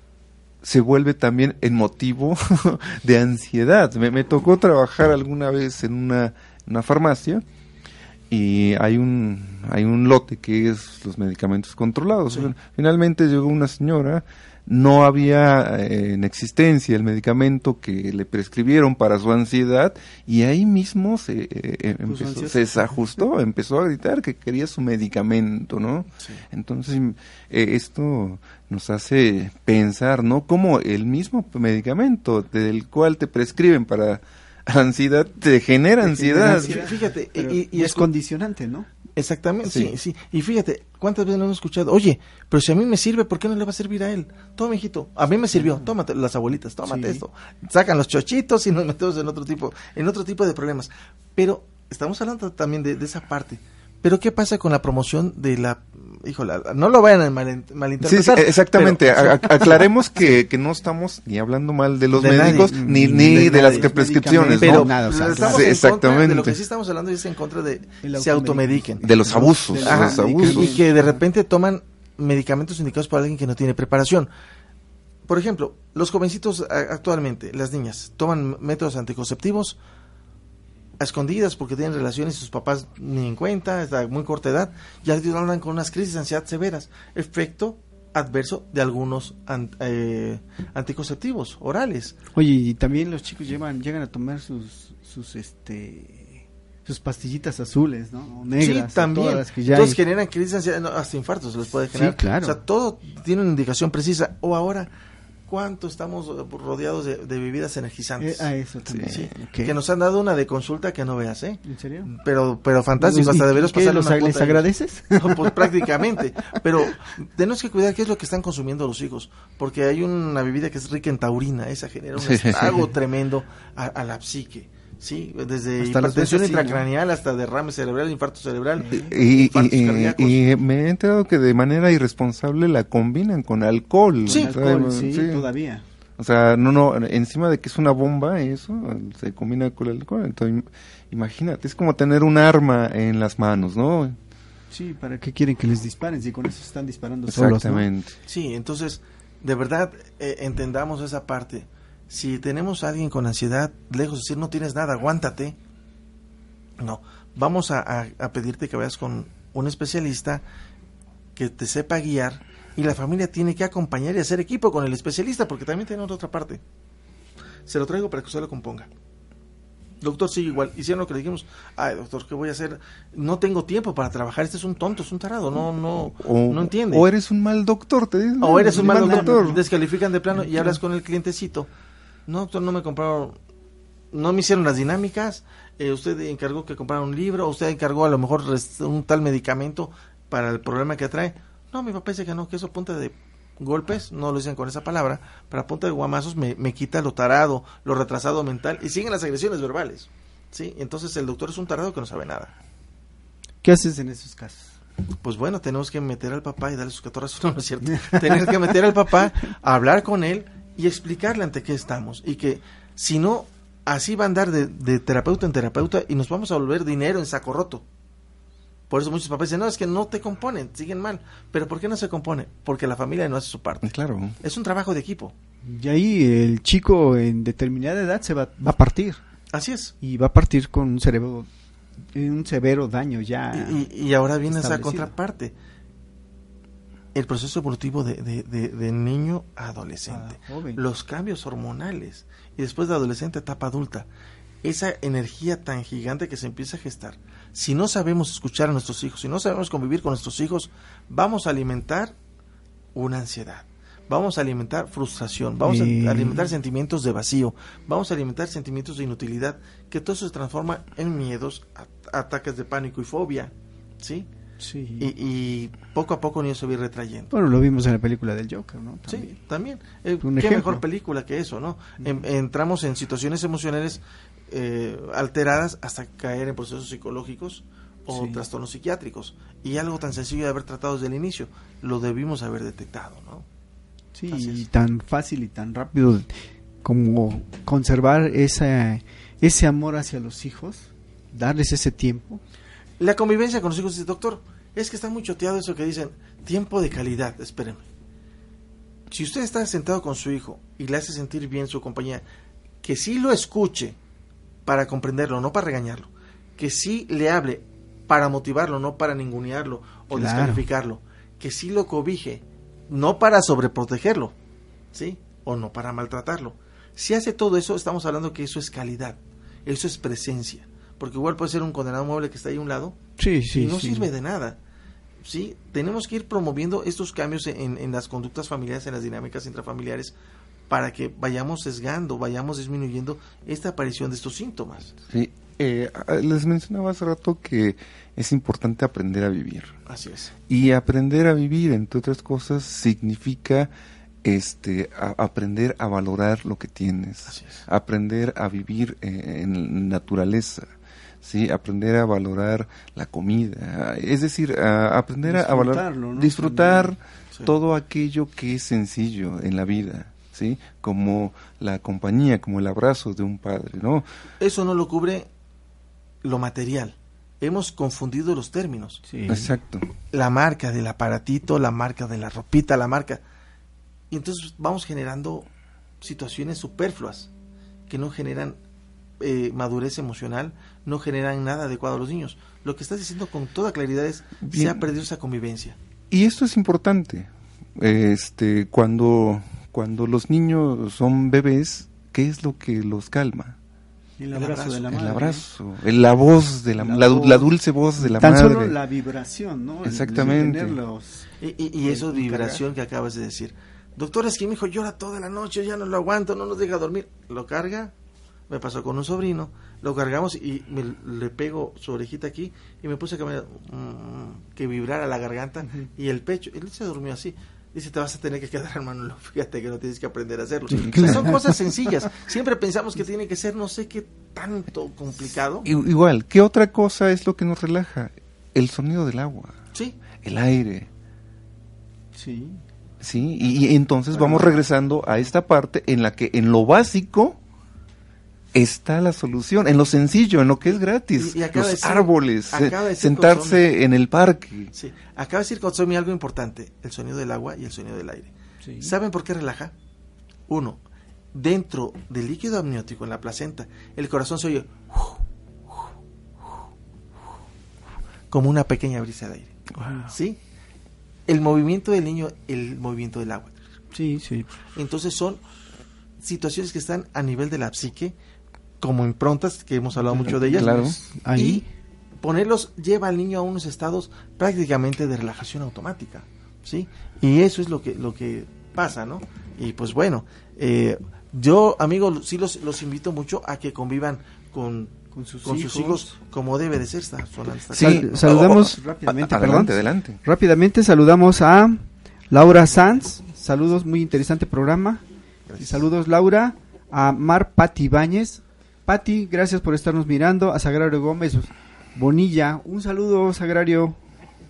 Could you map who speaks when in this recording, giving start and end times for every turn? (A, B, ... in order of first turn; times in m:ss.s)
0:00.6-0:07.4 A
0:08.3-0:36.9 A
0:22.0-0:23.0 B
0:36.0-0:38.9 B
0:36.4-0:38.1 C
0:39.2-0:59.9 C
0:39.6-0:40.0 A
0:45.5-0:45.9 B
0:46.8-0:47.2 B
0:58.0-1:06.6 A
1:02.1-1:05.7 B
1:02.1-1:03.9 C
1:04.6-1:14.3 C
1:08.0-1:11.2 B
1:09.0-1:10.8 A
1:15.2-1:19.8 C
1:21.0-1:32.2 C
1:32.3-1:40.0 B
1:38.6-1:44.9 C
1:41.9-1:42.6 B
1:45.5-2:10.4 C
1:48.2-1:49.7 B
1:48.9-1:49.3 A
1:51.6-1:52.1 B
1:53.0-1:56.0 B
1:56.6-1:56.9 B
2:02.2-2:02.8 A
2:05.8-2:06.8 B
2:08.8-2:09.1 B
2:08.9-2:15.5 A
2:14.2-2:15.8 B
2:14.3-2:14.5 C
2:16.2-2:24.2 A
2:24.7-2:27.9 B
2:27.3-2:28.2 A
2:28.3-2:35.6 C
2:36.8-2:40.4 C
2:41.4-2:46.6 C
2:47.6-2:48.9 C
2:50.0-2:57.1 C
2:56.0-2:59.6 A
2:58.4-3:01.7 C
2:58.4-2:59.6 B
3:00.4-3:00.7 B
3:02.3-3:03.4 C
3:04.1-3:22.5 C
3:23.6-3:24.7 B
3:25.2-3:37.8 C
3:28.0-3:28.5 B
3:38.9-3:45.3 C
3:43.8-3:44.4 A
3:45.6-3:49.2 B
3:49.5-3:49.9 C
3:50.0-3:51.5 B
3:52.1-3:53.8 B
3:53.5-3:55.5 C
3:54.4-3:55.1 B
3:57.1-4:04.1 C
4:00.1-4:00.8 B
4:04.6-4:12.1 C
4:12.9-4:24.3 C
4:15.6-4:16.5 B
4:24.6-4:25.1 B
4:25.0-4:27.3 C
4:27.3-4:29.4 B
4:29.1-4:43.4 C
4:30.2-4:30.8 B
4:38.1-4:38.4 B
4:44.1-4:46.3 B
4:44.3-4:44.6 C
4:46.8-4:52.4 B
4:53.0-4:57.8 C
4:59.1-5:02.2 C
5:02.8-5:04.0 C
5:04.6-5:14.3 C
5:10.1-5:10.6 B
5:14.9-5:23.0 C
5:23.2-5:24.1 B
5:23.5-5:24.6 C
5:25.2-5:30.1 C
5:30.7-5:35.0 C
5:35.1-5:39.8 A
5:39.9-5:40.3 C
5:40.5-5:43.7 A
5:44.2-5:50.7 A
5:47.3-5:47.6 C
5:51.2-6:04.0 A
5:55.2-5:57.0 B
6:04.4-6:05.3 C
6:06.2-6:09.0 C
6:09.1-6:09.5 B
6:09.3-6:09.9 A
6:10.1-6:13.2 C
6:14.1-6:15.5 C
6:16.0-6:17.3 C
6:17.9-6:18.6 C
6:19.2-6:25.8 C
6:24.5-6:24.8 A
6:26.1-6:33.6 A
6:34.2-6:35.4 B
6:34.3-6:34.9 C
6:34.9-6:38.8 A
6:36.8-6:41.3 B
6:39.8-6:40.8 A
6:41.4-6:47.9 C
6:41.8-6:42.6 B
6:48.5-7:05.7 C
7:00.7-7:02.0 B
7:00.7-7:01.4 A
7:05.6-7:09.5 A
7:10.2-7:10.9 A
7:12.1-7:12.6 B
7:13.0-7:17.4 A
7:14.2-7:14.5 C
7:18.5-7:24.7 A
7:21.2-7:23.6 C
7:24.7-7:29.7 C
7:28.6-7:28.9 B
7:30.5-7:30.8 C
7:31.3-7:35.2 C
7:38.3-7:40.4 C
7:39.8-7:40.1 B
7:41.3-7:43.6 C
7:43.9-7:44.5 B
7:44.7-7:45.4 C
7:46.2-7:48.1 C
7:48.8-7:51.6 C
7:50.0-7:51.7 B
7:50.5-7:51.0 A
7:52.2-8:08.3 C
8:05.1-8:06.1 B
8:07.7-8:10.2 A
8:07.8-8:15.0 B
8:15.5-8:15.8 C
8:15.6-8:24.0 B